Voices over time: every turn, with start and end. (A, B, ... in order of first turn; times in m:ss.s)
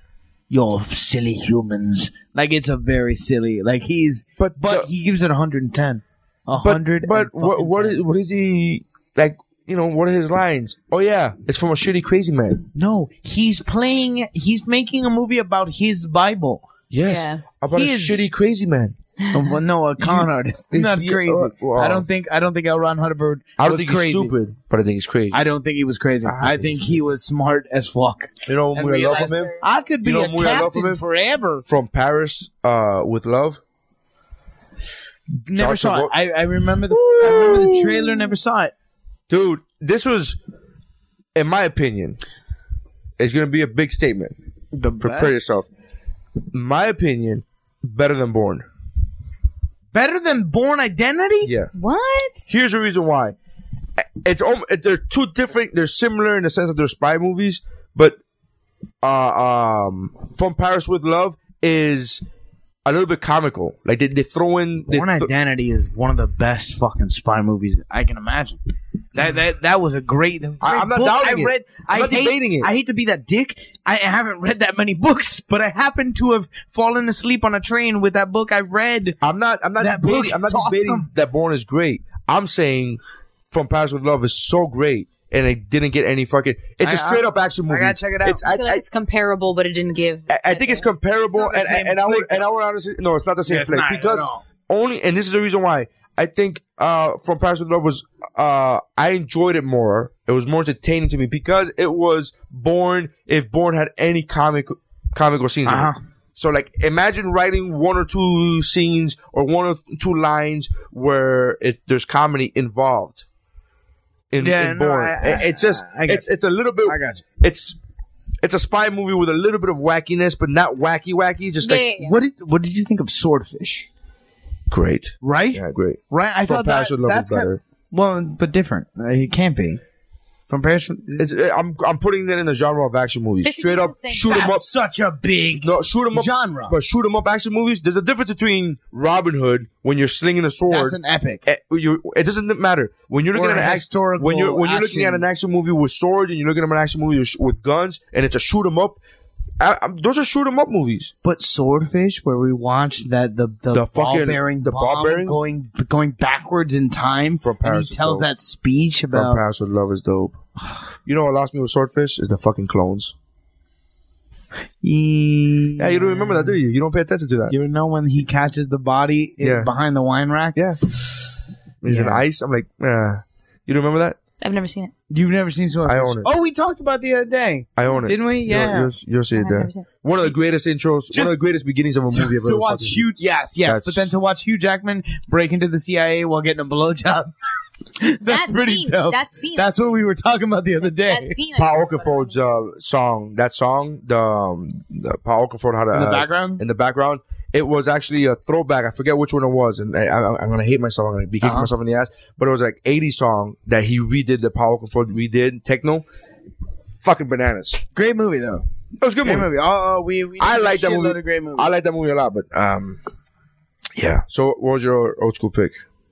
0:00.5-0:08.0 A
0:04.4-0:04.9 B
0:06.6-0:12.7 B
0:12.8-0:16.7 A
0:16.9-0:19.0 B
0:17.0-0:17.4 C
0:17.7-0:18.2 A
0:19.3-0:24.3 A
0:20.0-0:22.1 B
0:23.6-0:25.4 B
0:25.3-0:31.6 A
0:26.2-0:27.0 B
0:28.5-0:31.0 B
0:29.1-0:29.6 C
0:31.6-0:33.6 B
0:35.4-0:38.7 A
0:35.5-0:36.2 B
0:36.9-0:38.3 B
0:39.3-0:40.4 B
0:41.4-0:42.2 B
0:43.2-0:44.4 B
0:44.7-0:45.5 A
0:45.0-0:45.7 B
0:46.5-0:48.7 B
0:49.9-0:51.5 A
0:51.4-0:51.7 B
0:51.7-0:52.4 C
0:52.5-0:53.4 B
0:54.0-0:58.2 B
0:59.0-1:02.2 B
1:02.8-1:05.3 B
1:04.9-1:08.6 A
1:09.2-1:19.2 A
1:10.6-1:12.7 B
1:19.2-1:23.0 B
1:19.8-1:21.1 A
1:23.5-1:28.8 B
1:26.8-1:28.4 A
1:28.4-1:30.9 C
1:30.3-1:53.2 B
1:31.3-1:32.5 A
1:33.5-1:34.4 A
1:45.7-1:46.0 A
1:54.3-1:57.8 B
1:54.4-1:56.3 A
1:56.8-1:57.2 A
1:58.4-2:01.9 B
2:01.6-2:02.2 C
2:02.0-2:03.9 A
2:04.7-2:07.6 B
2:05.2-2:09.8 A
2:10.5-2:11.3 A
2:11.2-2:14.7 B
2:13.4-2:14.4 C
2:14.3-2:16.8 A
2:15.6-2:29.0 B
2:20.7-2:21.4 A
2:23.3-2:25.2 A
2:29.6-2:31.1 B
2:31.2-2:39.4 A
2:33.7-2:35.4 B
2:37.4-2:38.3 B
2:39.1-2:40.4 B
2:41.0-2:43.1 B
2:44.8-2:46.6 A
2:45.8-2:47.6 B
2:47.5-2:50.6 A
2:49.4-2:49.7 B
2:51.8-2:54.2 B
2:51.9-2:52.2 A
2:54.4-2:54.9 C
2:55.1-2:58.9 A
2:55.9-2:56.3 B
2:57.8-3:03.1 B
2:59.4-2:59.9 C
3:01.1-3:01.4 A
3:02.2-3:07.3 A
3:03.6-3:04.1 B
3:08.0-3:11.4 A
3:08.2-3:10.0 C
3:10.8-3:12.4 C
3:11.6-3:26.1 B
3:15.9-3:16.6 A
3:21.4-3:21.7 A
3:27.0-3:27.8 B
3:28.0-3:28.6 A
3:29.0-3:29.5 B
3:29.2-3:31.7 A
3:30.4-3:33.0 B
3:34.0-3:35.8 B